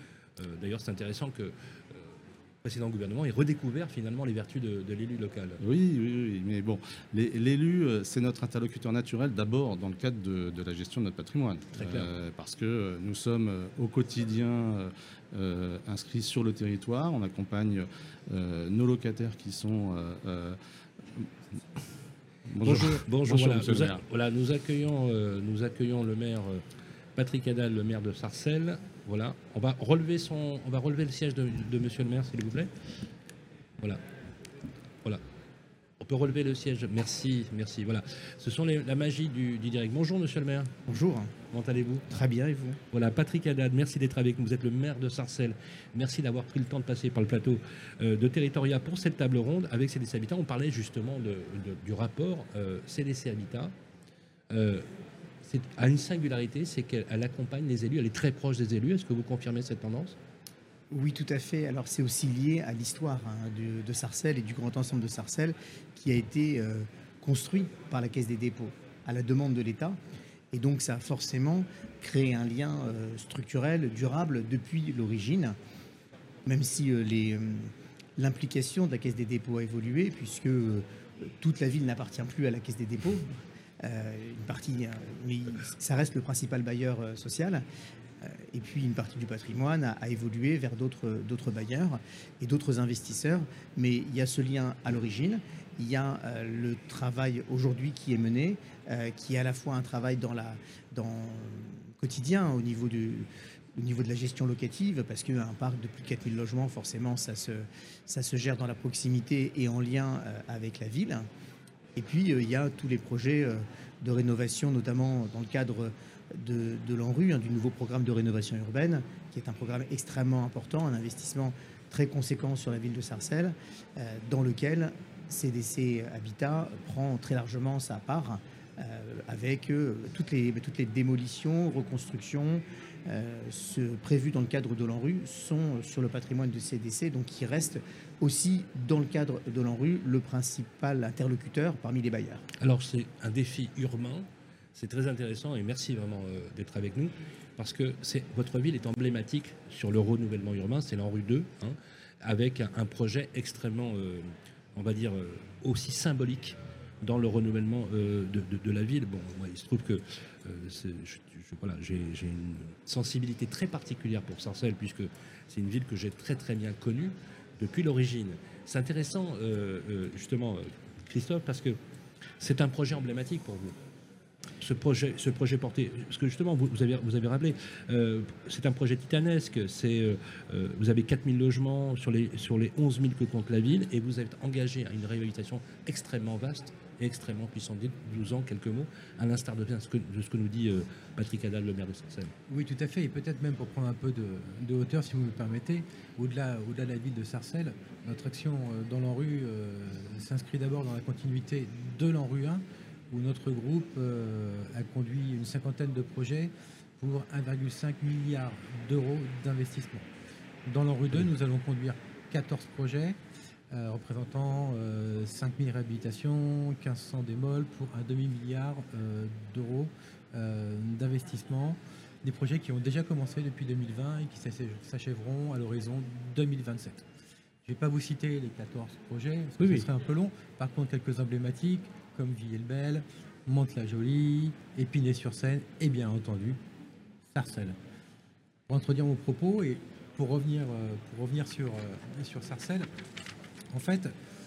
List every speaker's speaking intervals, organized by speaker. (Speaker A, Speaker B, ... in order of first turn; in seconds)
Speaker A: 0.4-5.6, 11.8-12.1, 22.6-26.6, 27.2-32.7, 36.0-40.7, 41.5-42.1, 42.9-53.7, 54.5-54.9, 55.4-60.2, 142.6-171.8, 172.4-173.8, 174.6-192.3, 229.6-229.9
Speaker B: 5.6-20.6, 22.5-24.0
Speaker C: 40.9-41.3, 42.1-42.8, 60.9-70.0, 70.5-75.6, 76.5-87.6, 88.2-111.3, 112.0-142.4
Speaker D: 192.5-210.1, 210.7-213.2, 213.7-227.1, 227.6-236.6, 237.3-237.8, 238.7-242.9, 243.7-244.1